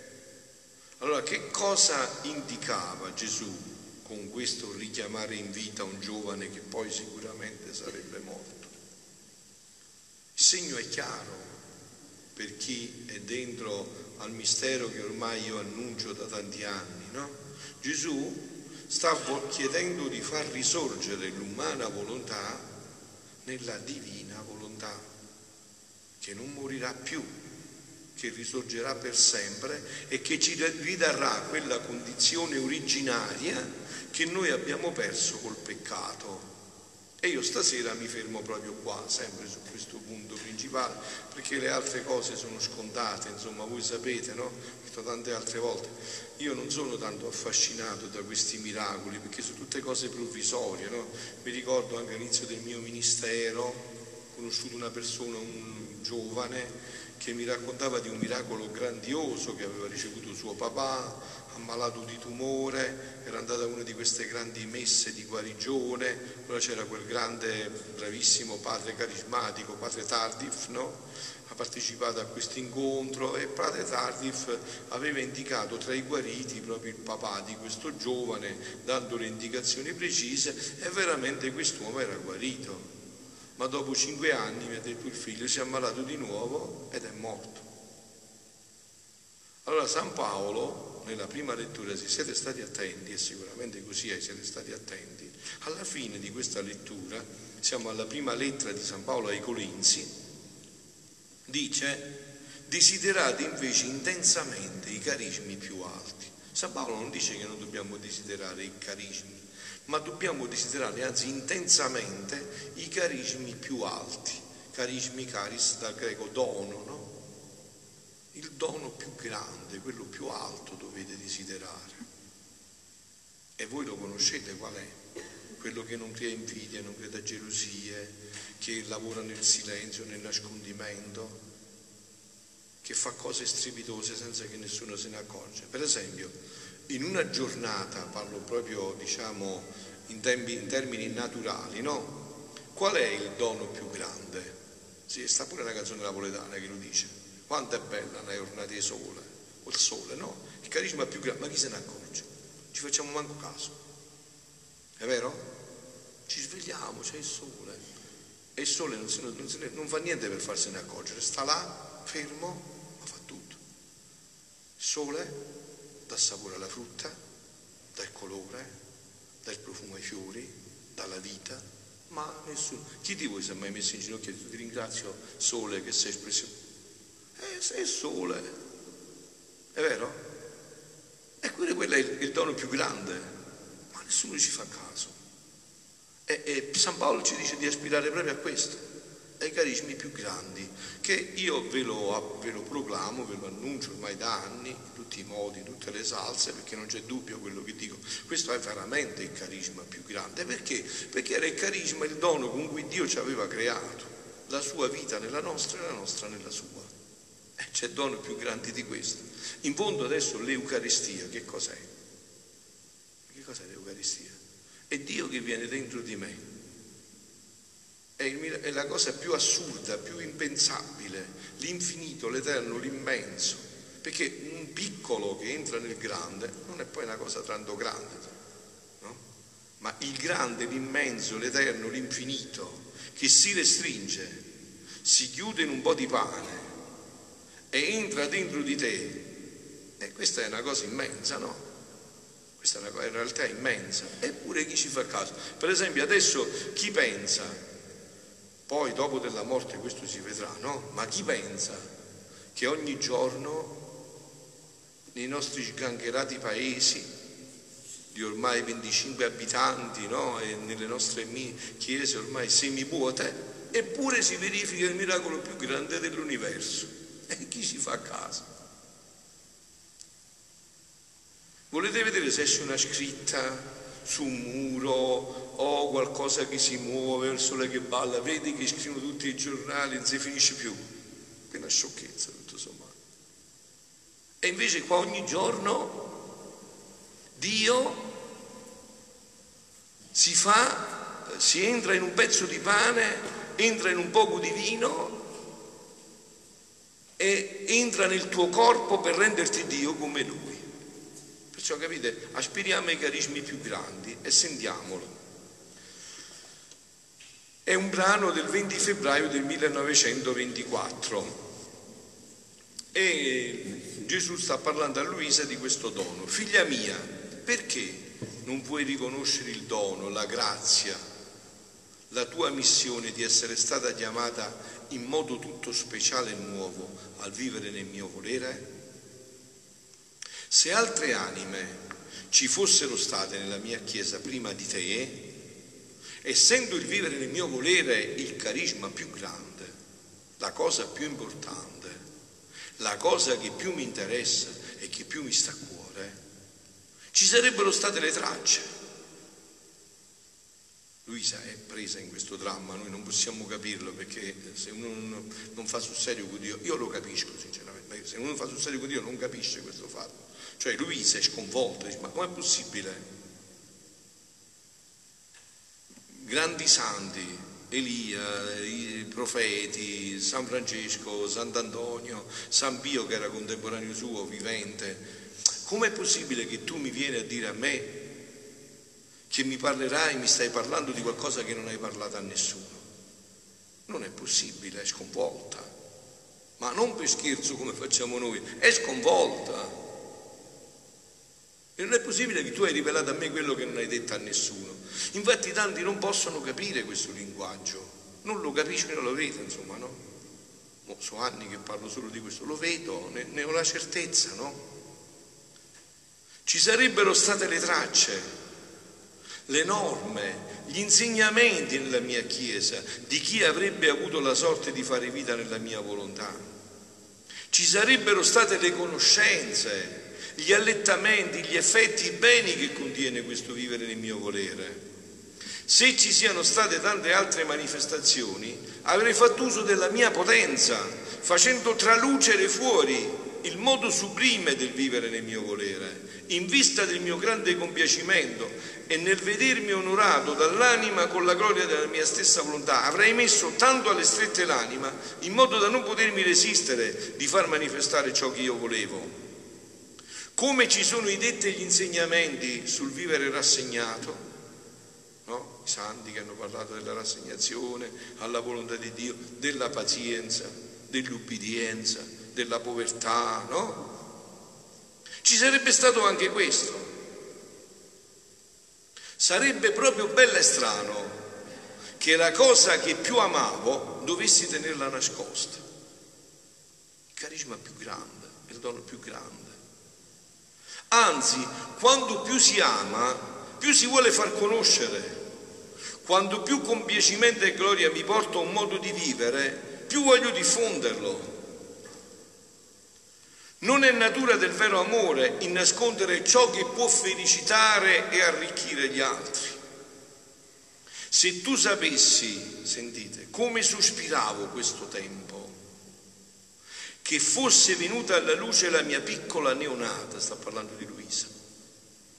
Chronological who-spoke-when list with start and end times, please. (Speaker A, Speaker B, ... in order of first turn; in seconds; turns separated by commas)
Speaker A: 1.0-8.7, Speaker A: 10.4-11.6, Speaker A: 12.3-22.7, Speaker A: 23.4-25.1, Speaker A: 26.2-27.4, Speaker A: 28.2-36.5, Speaker A: 37.2-82.9, Speaker A: 83.6-87.7, Speaker A: 89.7-100.1, Speaker A: 101.5-102.1, Speaker A: 102.7-117.1, Speaker A: 118.3-122.0, Speaker A: 123.6-125.0, Speaker A: 125.6-131.4, Speaker A: 132.8-136.4, Speaker A: 136.9-142.2, Speaker A: 142.7-144.6, Speaker A: 145.1-153.8, Speaker A: 155.0-155.5, Speaker A: 156.3-157.8, Speaker A: 158.6-163.6, Speaker A: 164.8-165.4, Speaker A: 166.1-167.2, Speaker A: 167.9-168.7, Speaker A: 169.4-176.5, Speaker A: 177.4-178.5, Speaker A: 179.8-180.2, Speaker A: 181.4-183.3, Speaker A: 183.9-185.2, Speaker A: 186.3-188.8, Speaker A: 189.4-206.9, Speaker A: 207.6-211.9, Speaker A: 213.3-214.4, Speaker A: 214.9-216.4, Speaker A: 218.2-228.4, Speaker A: 229.8-234.4, Speaker A: 235.0-236.7, Speaker A: 237.7-239.2, Speaker A: 240.0-241.6, Speaker A: 242.6-247.6, Speaker A: 248.7-251.9, Speaker A: 252.5-253.8, Speaker A: 255.1-257.1, Speaker A: 258.1-268.5, Speaker A: 271.7-280.9, Speaker A: 281.5-283.0, Speaker A: 284.4-286.1, Speaker A: 287.4-288.1, Speaker A: 290.1-295.2, Speaker A: 297.2-300.7, Speaker A: 301.5-305.1, Speaker A: 307.6-311.4, Speaker A: 312.9-321.0, Speaker A: 322.1-328.7, Speaker A: 330.5-335.2, Speaker A: 336.2-339.8, Speaker A: 340.4-342.0, Speaker A: 342.8-346.2, Speaker A: 347.1-348.7, Speaker A: 351.1-363.1, Speaker A: 366.1-375.1, Speaker A: 375.6-378.0, Speaker A: 379.3-382.9, Speaker A: 383.9-385.7, Speaker A: 386.6-389.8, Speaker A: 391.8-400.0, Speaker A: 400.9-404.6, Speaker A: 406.4-408.3, Speaker A: 409.5-416.5, Speaker A: 417.5-424.8, Speaker A: 425.7-449.2, Speaker A: 450.4-454.2, Speaker A: 455.2-463.9, Speaker A: 465.2-466.9, Speaker A: 469.2-471.2, Speaker A: 472.0-475.6, Speaker A: 477.1-479.6, Speaker A: 480.9-485.2, Speaker A: 486.0-491.4, Speaker A: 493.6-499.6, Speaker A: 501.1-505.6, Speaker A: 507.0-511.3